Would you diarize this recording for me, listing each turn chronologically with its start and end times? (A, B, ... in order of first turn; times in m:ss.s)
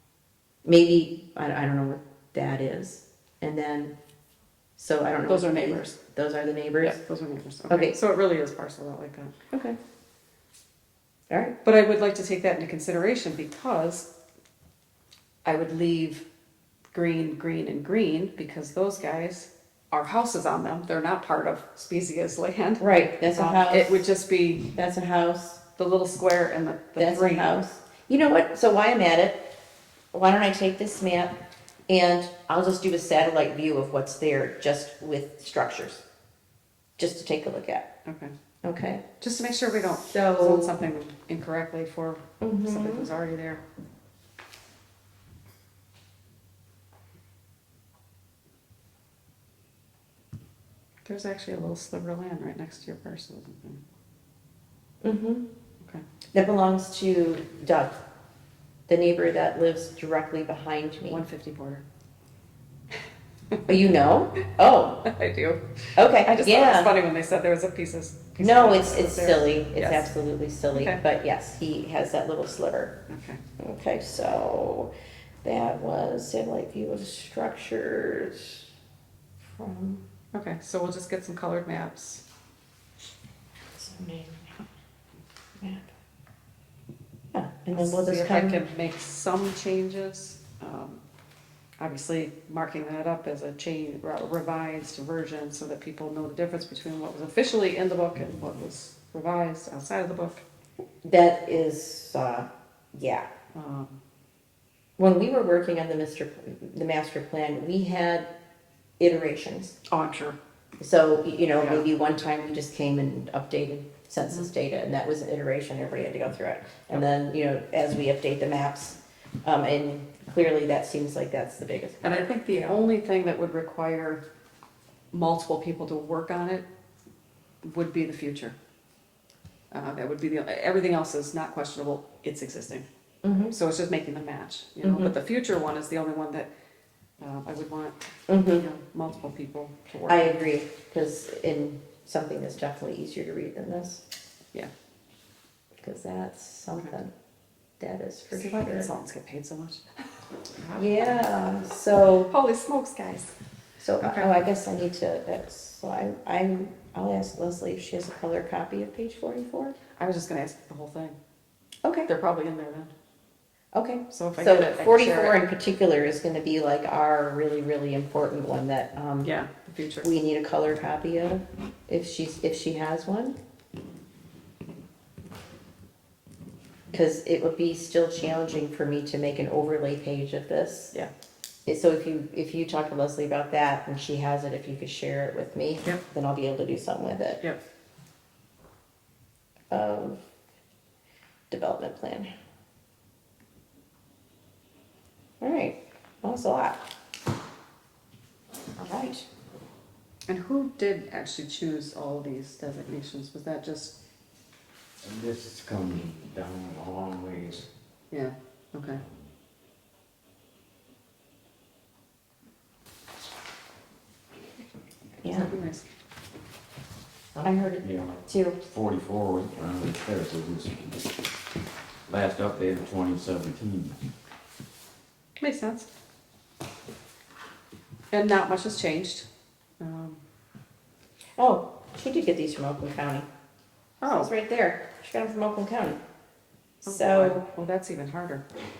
0:00.6-0:03.9 A
0:04.8-0:07.0 A
0:05.3-0:06.0 B
0:06.8-0:09.3 B
0:07.7-0:08.0 A
0:09.5-0:09.8 A
0:11.3-0:11.6 A
0:11.6-0:14.1 B
0:15.4-0:16.2 B
0:16.9-0:24.7 B
0:22.8-0:24.1 A
0:24.7-0:25.6 A
0:25.8-0:27.5 B
0:27.0-0:29.5 A
0:30.1-0:31.4 A
0:31.9-0:36.0 A
0:37.0-0:37.9 A
0:38.0-0:38.3 B
0:38.6-0:39.0 A
0:39.2-0:43.6 B
0:40.1-0:40.8 A
0:42.4-0:43.1 A
0:51.0-0:53.8 B
0:55.0-0:55.5 A
0:56.3-0:58.0 A
0:58.9-1:01.2 A
1:01.0-1:01.8 B
1:03.7-1:05.1 A
1:05.0-1:10.1 B
1:06.0-1:06.9 A
1:08.4-1:13.0 A
1:10.7-1:11.0 B
1:13.1-1:13.4 B
1:13.6-1:14.9 A
1:15.4-1:18.6 A
1:19.4-1:20.0 A
1:20.3-1:22.2 B
1:23.8-1:24.6 A
1:25.6-1:25.9 A
1:27.3-1:28.6 A
1:27.7-1:31.0 B
1:31.8-1:40.4 B
1:41.0-1:43.3 A
1:43.5-1:44.0 B
1:45.0-1:48.3 A
1:49.0-1:49.8 A
1:49.9-1:50.4 B
1:50.8-2:02.8 A
1:51.6-1:51.8 B
2:02.0-2:04.2 B
2:05.1-2:06.6 B
2:07.6-2:08.5 B
2:09.7-2:12.8 B
2:13.2-2:13.5 A
2:13.4-2:16.5 B
2:14.8-2:15.1 A
2:17.2-2:20.4 B
2:18.3-2:18.6 A
2:20.1-2:24.0 A
2:25.8-2:27.1 A
2:27.8-2:28.9 A
2:28.3-2:31.3 B
2:30.7-2:32.3 A
2:32.3-2:33.3 B
2:33.8-2:39.8 A
2:34.0-2:34.3 B
2:40.0-2:41.2 B
2:41.8-2:42.1 A
2:42.1-2:42.9 B
2:43.7-2:49.3 A
2:44.1-2:45.4 B
2:49.2-2:50.1 B
2:50.0-2:53.4 A
2:56.9-3:00.9 A
3:01.6-3:07.4 A
3:09.7-3:10.2 A
3:11.5-3:12.3 A
3:15.4-3:16.8 A
3:18.8-3:19.3 A
3:20.3-3:24.0 B
3:25.0-3:27.7 C
3:28.1-3:29.0 B
3:35.2-3:35.5 A
3:35.3-3:35.8 B
3:37.4-3:38.6 A
3:37.8-3:41.0 C
3:42.1-3:44.0 C
3:45.4-3:45.9 B
3:48.1-3:49.3 B
3:49.8-3:50.2 B
3:51.4-3:53.3 A
3:54.0-3:54.3 B
3:54.0-3:56.0 A
3:56.8-3:57.5 A
3:56.8-3:58.4 B